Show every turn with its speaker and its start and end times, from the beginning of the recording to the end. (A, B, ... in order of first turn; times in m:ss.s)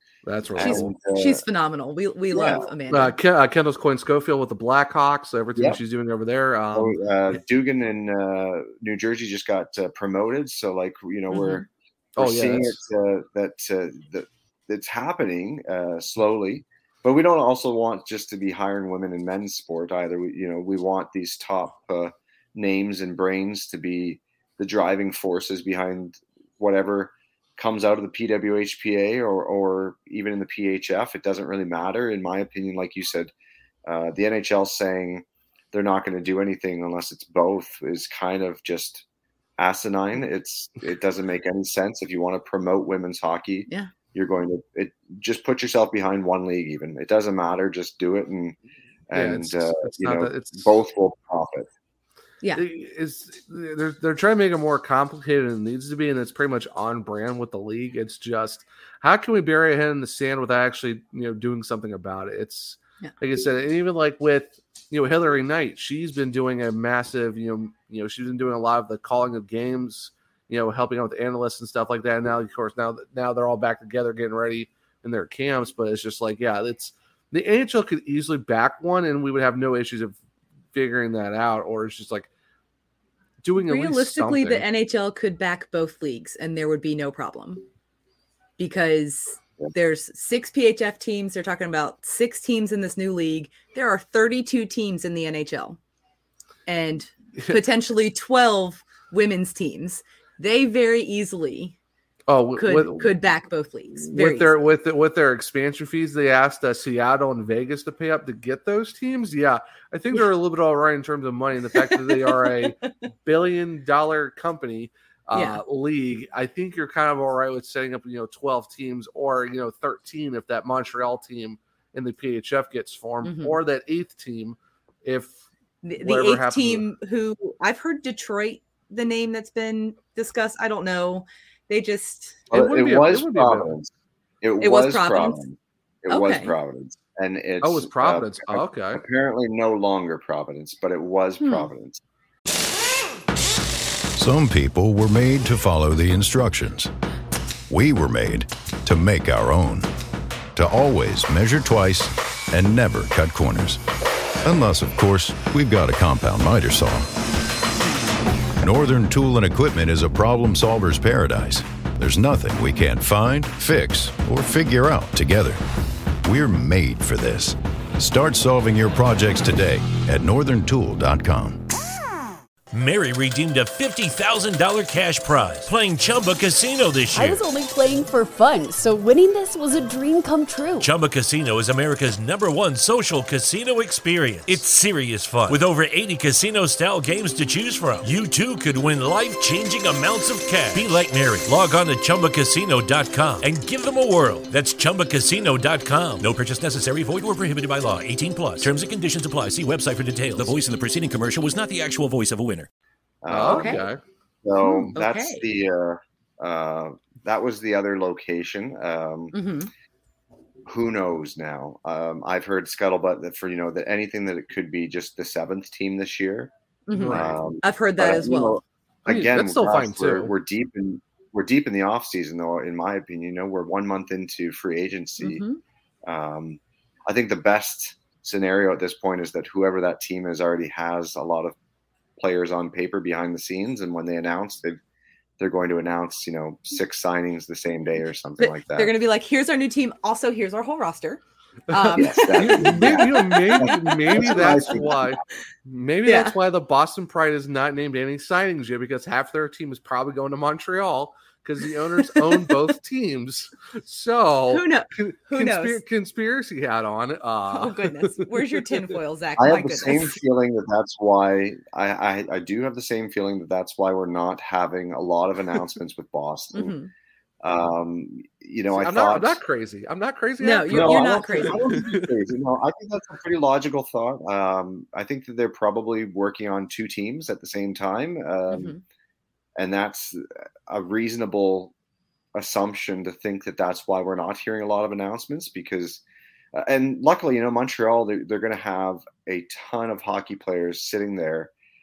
0:00.2-0:00.8 A
0:00.6-0:01.4 B
0:00.6-0:03.1 C
0:02.3-0:02.7 B
0:02.9-0:07.0 A
0:05.6-0:05.8 B
0:06.7-0:33.3 B
0:11.3-0:11.6 C
0:12.2-0:12.8 A
0:33.8-0:39.0 B
0:39.6-0:48.6 B
0:49.1-0:51.7 B
0:49.1-0:50.7 A
0:52.6-1:20.2 A
1:20.7-1:22.3 A
1:23.4-1:24.6 A
1:23.6-1:27.6 C
1:28.6-1:35.8 C
1:36.7-1:41.8 C
1:42.3-1:43.1 A
1:42.6-1:44.5 C
1:44.1-2:05.4 A
1:51.9-1:52.9 C
1:55.3-1:55.6 C
2:03.2-2:03.6 C
2:05.8-2:12.5 C
2:06.0-2:06.8 A
2:12.5-2:22.0 B
2:12.5-2:13.8 A
2:14.6-2:15.4 C
2:16.1-2:16.6 C
2:17.6-2:19.0 A
2:21.4-2:21.7 C
2:24.2-2:26.9 D
2:27.7-2:29.9 D
2:30.6-2:33.8 D
2:34.4-2:37.1 D
2:38.6-2:45.6 D
2:46.2-2:51.6 D
2:52.7-2:57.4 E
2:57.1-3:00.9 F
3:00.8-3:22.7 E
3:23.2-3:23.9 B
3:23.3-3:24.0 A
3:23.5-3:23.8 C
3:24.4-3:29.4 B
3:24.6-3:24.9 A
3:24.9-3:25.4 C
3:29.3-3:29.7 C
3:30.6-3:36.5 B
3:36.9-3:38.6 C
3:36.9-3:37.5 A
3:37.1-3:45.4 B
3:39.1-3:40.3 A
3:45.2-3:45.6 C
3:46.0-3:51.6 B
3:52.2-3:54.8 B
3:55.4-3:58.9 B
3:58.4-4:04.8 C
4:01.7-4:18.9 A
4:02.0-4:05.1 B
4:06.0-4:06.3 C
4:14.5-4:15.8 C
4:17.5-4:20.2 C
4:19.4-4:26.7 B
4:26.5-4:26.9 C
4:27.4-4:29.4 B
4:28.7-4:32.0 A
4:30.4-4:31.6 C
4:30.7-4:38.7 B
4:38.5-4:38.8 C
4:39.6-4:41.7 B
4:42.3-4:46.0 B
4:46.5-4:51.5 B